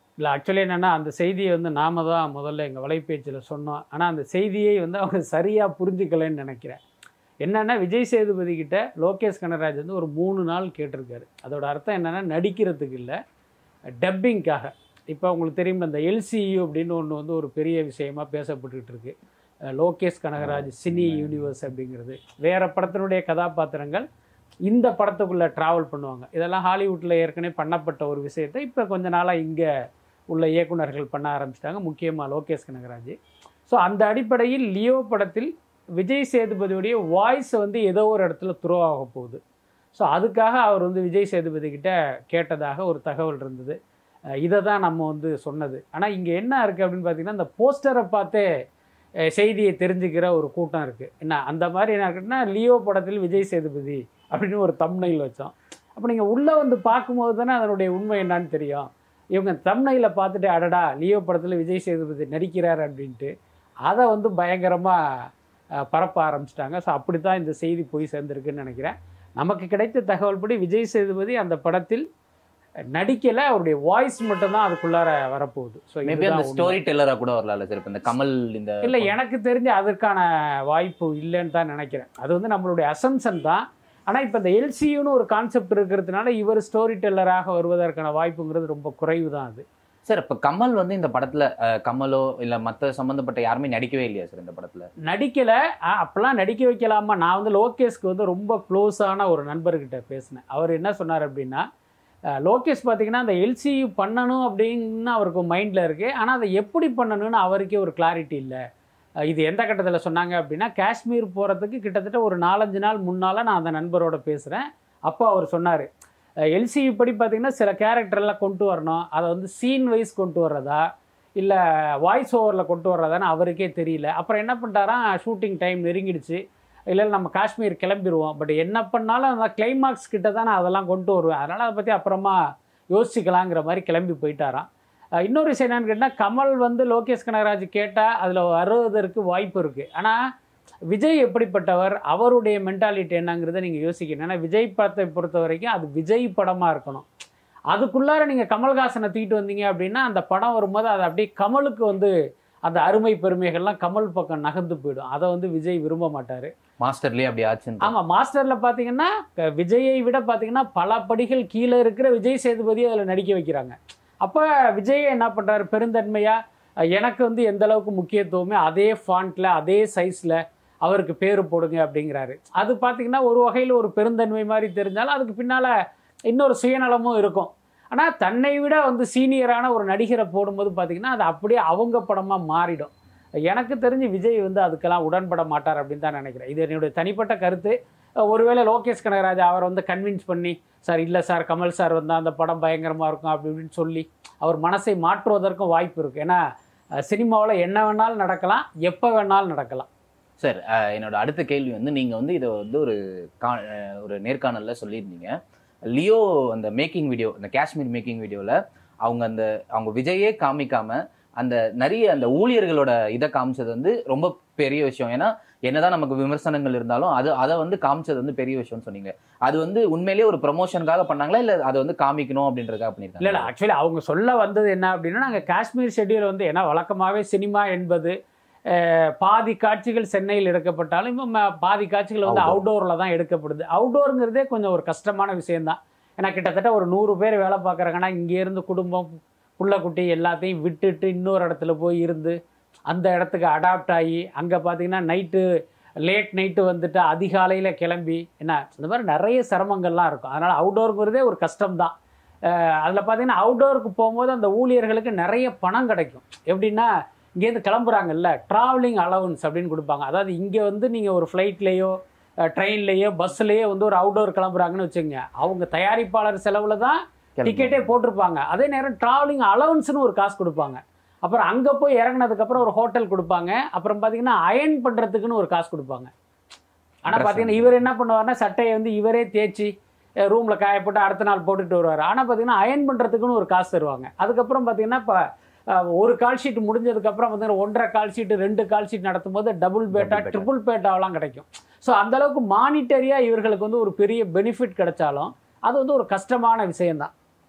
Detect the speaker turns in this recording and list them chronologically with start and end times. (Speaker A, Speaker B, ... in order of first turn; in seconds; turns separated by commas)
Speaker A: 0.2-6.8, Speaker A: 7.4-13.2, Speaker A: 14.0-19.1, Speaker A: 19.8-24.0, Speaker B: 20.4-21.3, Speaker A: 24.7-29.7, Speaker A: 30.3-33.1, Speaker A: 33.7-39.4, Speaker A: 39.9-43.8, Speaker A: 44.4-48.4, Speaker A: 49.3-63.3, Speaker A: 63.9-65.0, Speaker A: 65.9-72.0, Speaker A: 72.9-76.8, Speaker B: 76.0-79.1, Speaker A: 78.8-89.6, Speaker B: 90.1-94.9, Speaker A: 95.1-101.6, Speaker A: 102.4-108.6, Speaker A: 109.3-115.9, Speaker A: 116.5-120.8, Speaker A: 121.4-126.4, Speaker A: 126.9-132.4, Speaker A: 132.9-134.7, Speaker A: 135.2-140.2, Speaker A: 140.9-147.1, Speaker A: 147.7-152.1, Speaker A: 152.7-156.5, Speaker B: 156.8-157.9, Speaker A: 157.8-166.4, Speaker A: 166.9-175.7, Speaker A: 176.3-182.9, Speaker A: 183.5-187.8, Speaker A: 188.3-196.4, Speaker A: 197.1-199.9, Speaker B: 200.4-205.3, Speaker B: 205.9-223.5, Speaker A: 223.2-228.1, Speaker A: 228.7-242.3, Speaker B: 232.2-232.6, Speaker A: 242.9-245.4, Speaker A: 246.1-251.9, Speaker A: 252.5-261.9, Speaker A: 262.5-276.1, Speaker B: 267.4-267.9, Speaker A: 277.1-279.7, Speaker B: 277.1-277.7, Speaker A: 280.2-285.2, Speaker A: 285.7-297.1, Speaker B: 289.9-290.5